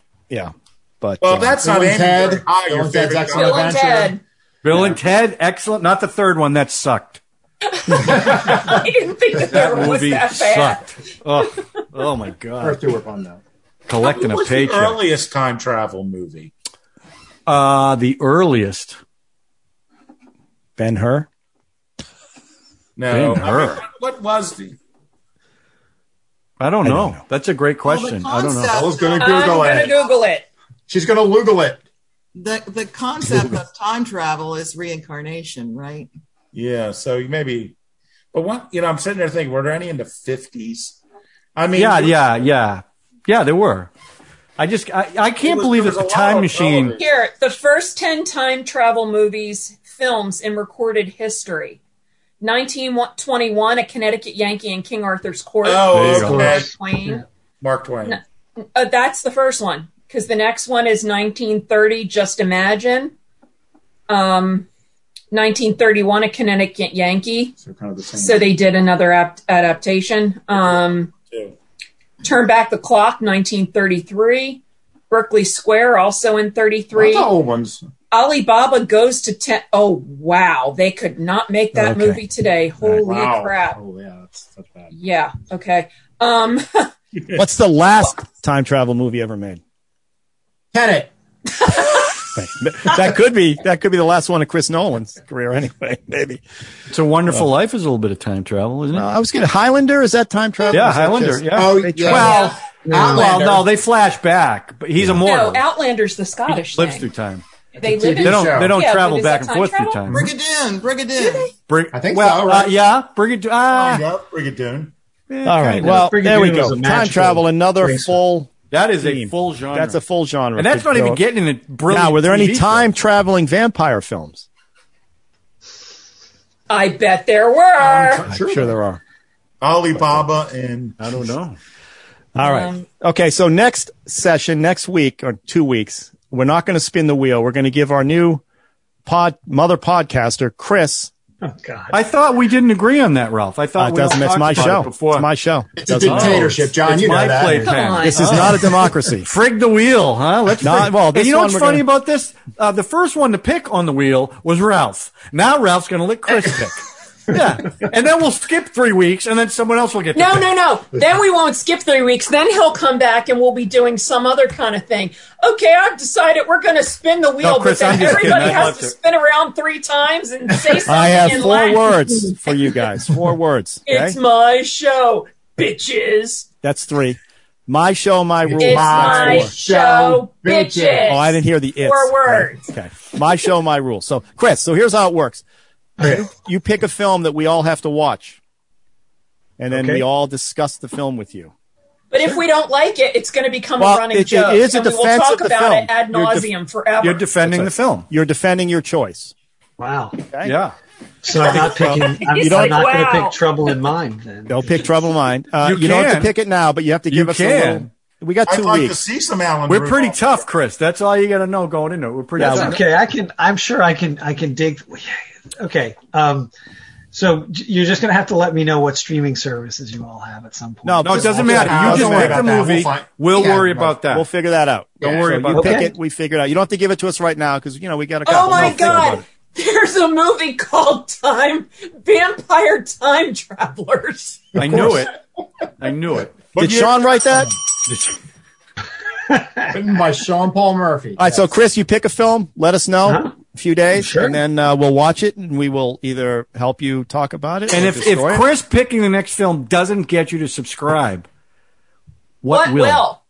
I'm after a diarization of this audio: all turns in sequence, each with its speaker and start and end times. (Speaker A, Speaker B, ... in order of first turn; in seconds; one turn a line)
Speaker A: 0.3-1.6
Speaker B: 1.2-3.7
Speaker C: 1.6-4.2
Speaker D: 3.3-4.2
Speaker E: 4.6-7.2
Speaker D: 7.7-10.8
Speaker E: 9.4-12.8
Speaker C: 12.6-13.4
Speaker E: 13.9-15.0
Speaker B: 14.0-16.5
Speaker E: 17.4-19.0
Speaker A: 20.8-21.3
Speaker B: 23.0-24.8
Speaker E: 23.1-23.8
Speaker E: 26.6-28.8
Speaker A: 26.8-27.2
Speaker F: 27.8-29.9
Speaker C: 28.7-29.9
Speaker D: 29.2-30.4
Speaker C: 30.9-31.8
Speaker F: 32.3-36.1
Speaker B: 36.5-37.7
Speaker B: 38.3-41.0
Speaker B: 41.5-42.2
Speaker E: 41.7-43.9
Speaker E: 44.6-47.0
Speaker B: 45.4-47.1
Speaker D: 47.0-51.8
Speaker D: 52.4-57.2
Speaker B: 55.6-56.7
Speaker E: 55.9-56.5
Speaker B: 57.6-58.2
Speaker D: 58.0-63.1
Speaker D: 64.1-64.7
Speaker D: 65.3-67.5
Speaker C: 67.6-68.5
Speaker D: 68.2-71.1
Speaker B: 71.2-71.5
Speaker D: 72.2-77.3
Speaker C: 76.9-77.8
Speaker D: 78.1-83.8
Speaker A: 81.7-82.2
Speaker C: 83.0-84.9
Speaker D: 84.9-86.9
Speaker A: 87.3-89.6
Speaker C: 90.7-91.1
Speaker A: 92.3-96.4
Speaker E: 96.9-99.1
Speaker A: 98.9-102.3
Speaker E: 100.7-105.6
Speaker C: 101.5-103.7
Speaker D: 102.1-102.6
Speaker G: 102.9-103.2
Speaker D: 105.2-107.0
Speaker E: 106.5-107.4
Speaker D: 107.8-110.0
Speaker C: 107.8-108.8
Speaker E: 108.2-110.3
Speaker F: 110.0-111.5
Speaker E: 111.7-114.0
Speaker C: 111.9-112.7
Speaker B: 113.7-114.9
Speaker E: 115.3-116.0
Speaker A: 115.4-118.5
Speaker G: 115.8-118.2
Speaker E: 118.7-120.0
Speaker A: 119.0-121.2
Speaker E: 120.5-122.9
Speaker A: 121.9-124.5
Speaker D: 126.7-128.2
Speaker C: 127.8-128.5
Speaker A: 128.3-129.0
Speaker B: 129.6-131.0
Speaker A: 130.0-130.2
Speaker E: 131.0-131.6
Speaker A: 132.3-138.4
Speaker D: 132.4-132.8
Speaker A: 139.1-141.1
Speaker G: 141.4-141.9
Speaker E: 141.9-145.3
Speaker A: 143.8-146.7
Speaker C: 145.8-147.7
Speaker E: 146.0-148.7
Speaker D: 147.5-148.4
Speaker A: 148.1-149.3
Speaker E: 149.2-160.5
Speaker A: 150.6-151.8
Speaker D: 160.1-171.8
Speaker E: 167.4-168.9
Speaker A: 168.0-168.7
Speaker C: 170.7-171.3
Speaker A: 170.8-174.2
Speaker D: 173.9-176.4
Speaker A: 176.6-179.5
Speaker C: 178.4-181.2
Speaker D: 178.6-182.6
Speaker A: 181.0-185.4
Speaker A: 186.0-188.4
Speaker A: 189.6-191.5
Speaker G: 189.7-190.0
Speaker D: 192.1-197.2
Speaker A: 193.8-196.5
Speaker E: 197.0-198.1
Speaker A: 197.4-199.3
Speaker G: 199.8-200.2
Speaker A: 200.3-200.6
Speaker E: 200.4-200.7
Speaker G: 201.2-204.8
Speaker A: 201.4-202.9
Speaker D: 202.0-203.4
Speaker A: 204.5-209.0
Speaker E: 205.6-206.3
Speaker E: 207.1-207.9
Speaker B: 208.5-210.3
Speaker E: 209.7-212.8
Speaker A: 212.4-212.8
Speaker G: 212.4-216.5
Speaker G: 217.1-221.4
Speaker A: 220.8-222.5
Speaker E: 221.0-224.3
Speaker C: 221.2-224.0
Speaker A: 224.1-229.2
Speaker C: 225.0-225.5
Speaker E: 225.0-225.9
Speaker G: 225.5-225.9
Speaker D: 228.2-234.4
Speaker E: 228.3-229.2
Speaker E: 234.6-235.1
Speaker C: 234.6-235.0
Speaker E: 235.8-236.4
Speaker B: 236.5-237.3
Speaker A: 236.6-237.5
Speaker E: 237.8-238.2
Speaker G: 239.3-239.7
Speaker C: 239.7-241.5
Speaker A: 241.2-248.4
Speaker G: 243.1-243.3
Speaker G: 243.9-244.4
Speaker E: 247.7-251.2
Speaker E: 252.4-253.0
Speaker D: 252.5-253.2